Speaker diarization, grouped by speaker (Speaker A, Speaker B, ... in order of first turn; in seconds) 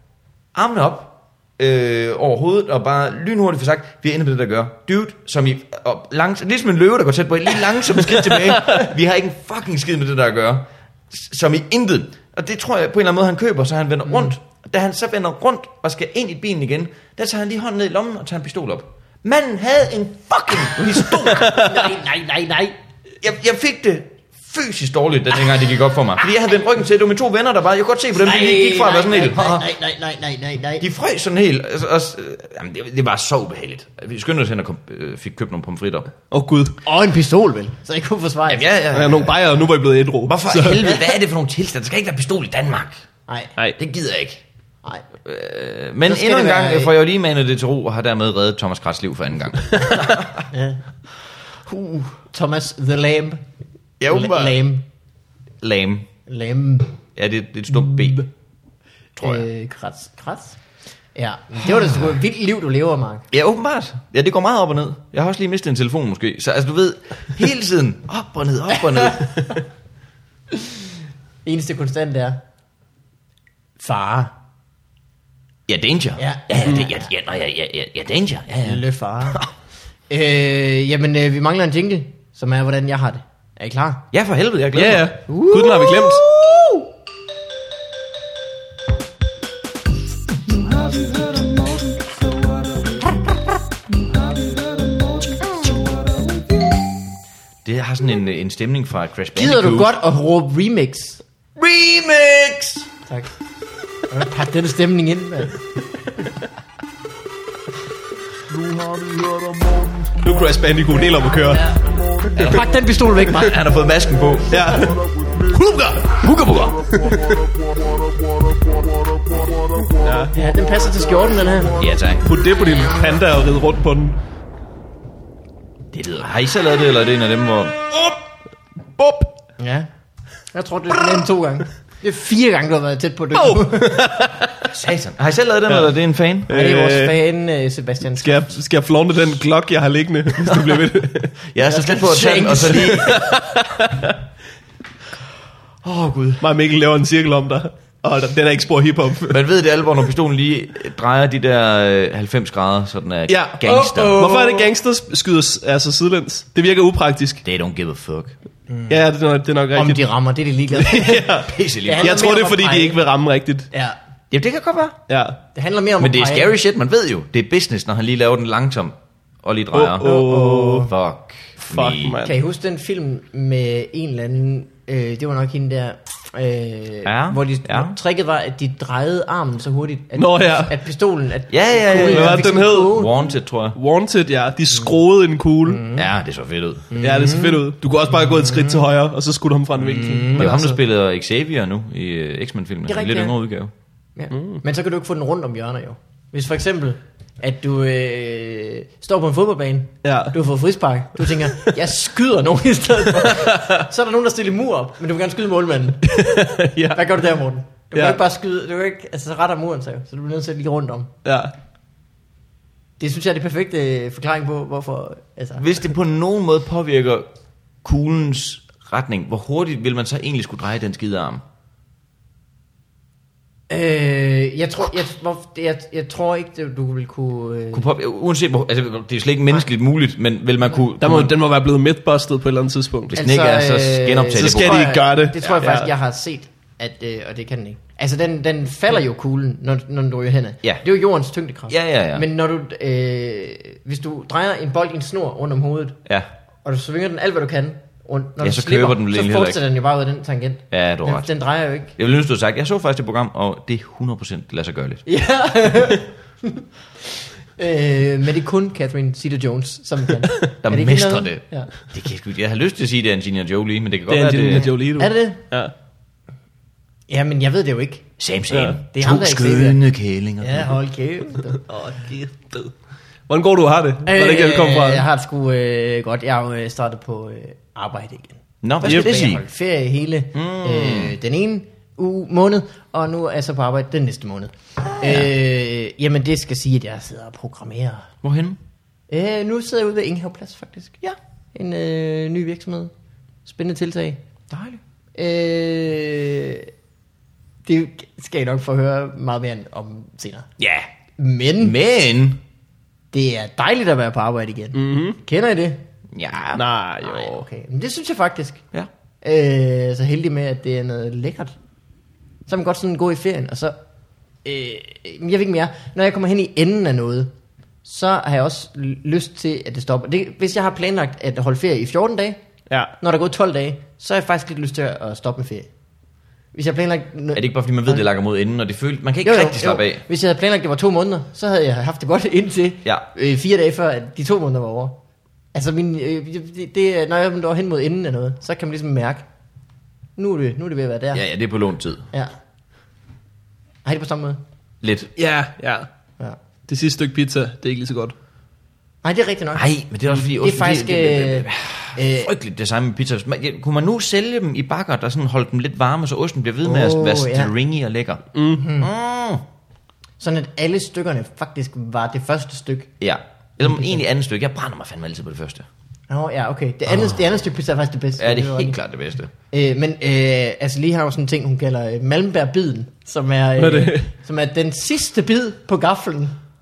Speaker A: 0.6-21.9, 23.2-29.7, 30.8-36.1, 38.5-39.4, 40.3-43.0, 43.8-44.4, 45.2-50.5, 54.0-54.6, 55.6-56.1, 57.2-58.2, 59.2-59.5, 63.3-69.4, 75.7-79.5, 84.1-85.1, 97.6-99.9, 101.6-102.9, 112.4-112.7, 113.3-114.7, 115.5-116.8, 121.8-122.3, 125.9-128.1, 134.7-136.5, 140.4-140.8, 141.5-143.2, 145.8-146.4, 149.3-154.2, 157.4-158.3, 161.5-162.3, 164.3-165.0, 166.0-172.2, 177.1-178.0, 181.5-183.8, 185.9-186.9, 190.4-193.7, 215.6-217.3, 217.8-221.4, 227.7-231.3, 233.1-235.6, 241.7-242.2, 248.4-249.6, 250.7-251.3, 252.0-255.0, 260.6-264.7, 268.2-270.8, 278.6-279.4, 280.3-281.1, 285.0-285.3, 288.2-288.6, 294.5-294.8, 300.6-300.9, 301.6-302.4, 306.1-306.6, 327.3-330.0, 341.1-342.1, 344.8-345.1, 349.6-358.3, 358.8-359.4, 363.0-365.7, 366.9-367.2, 368.2-369.3
Speaker B: 14.1-14.3, 21.5-22.7, 28.2-30.9, 36.9-38.7, 46.0-46.9, 50.5-50.8, 51.7-53.4, 54.1-54.9, 56.3-57.0, 57.7-58.3, 59.2-60.6, 61.1-63.3, 71.5-72.4, 73.8-74.3, 76.2-77.1, 78.6-79.4, 80.1-84.0, 85.3-86.8, 90.9-91.3, 99.4-101.2, 104.1-106.3, 112.3-113.6, 120.3-121.8, 129.6-129.9, 130.5-134.1, 136.5-138.5, 141.7-143.2, 153.6-154.7, 158.7-159.0, 159.7-163.0, 163.7-164.0, 165.6-166.5, 170.0-170.9, 172.1-183.1, 185.7-186.1, 186.9-187.6, 188.2-188.8, 189.8-190.7, 192.9-193.3, 194.2-206.4, 206.9-211.1, 213.0-215.7, 223.7-227.9, 233.1-246.0, 246.6-251.9, 255.1-256.6, 257.6-261.7, 264.6-265.4, 267.1-268.1, 268.9-269.8, 270.4-271.7, 274.1-288.1, 289.1-291.0, 291.5-292.9, 293.4-294.2, 295.2-296.7, 297.7-300.5, 301.2-301.8, 303.1-305.8, 307.0-308.6, 309.2-311.5, 312.5-313.8, 314.4-317.3, 317.9-322.4, 323.0-325.7, 326.5-328.1, 329.2-335.0, 335.5-339.3, 340.2-341.2, 343.9-344.4, 349.0-352.3, 356.6-357.5, 358.5-358.9, 360.2-362.9, 363.6-364.0, 366.1-368.8, 369.5-376.4
Speaker C: 21.2-21.7, 36.3-36.8, 38.9-40.9, 84.7-86.2, 110.2-111.7, 114.5-115.0, 117.0-117.4, 120.0-120.3, 122.2-124.2, 129.0-129.3, 133.3-134.6, 136.5-137.2, 138.2-141.3, 142.9-144.1, 146.4-149.4, 153.3-157.4, 158.9-160.1, 160.7-163.7, 165.1-165.4, 169.7-170.9, 171.6-172.3, 180.2-180.7, 181.9-183.0, 183.7-185.8, 187.0-190.7, 194.3-194.6, 200.0-200.4, 203.2-203.7, 206.1-207.0, 207.9-208.2, 211.2-211.5, 231.0-233.2, 234.3-235.9, 264.1-265.7, 268.5-268.8, 271.6-272.7, 273.3-275.1, 278.9-279.2, 304.7-305.2, 306.6-307.4, 345.2-345.9, 346.7-348.1, 358.4-358.6, 373.6-374.1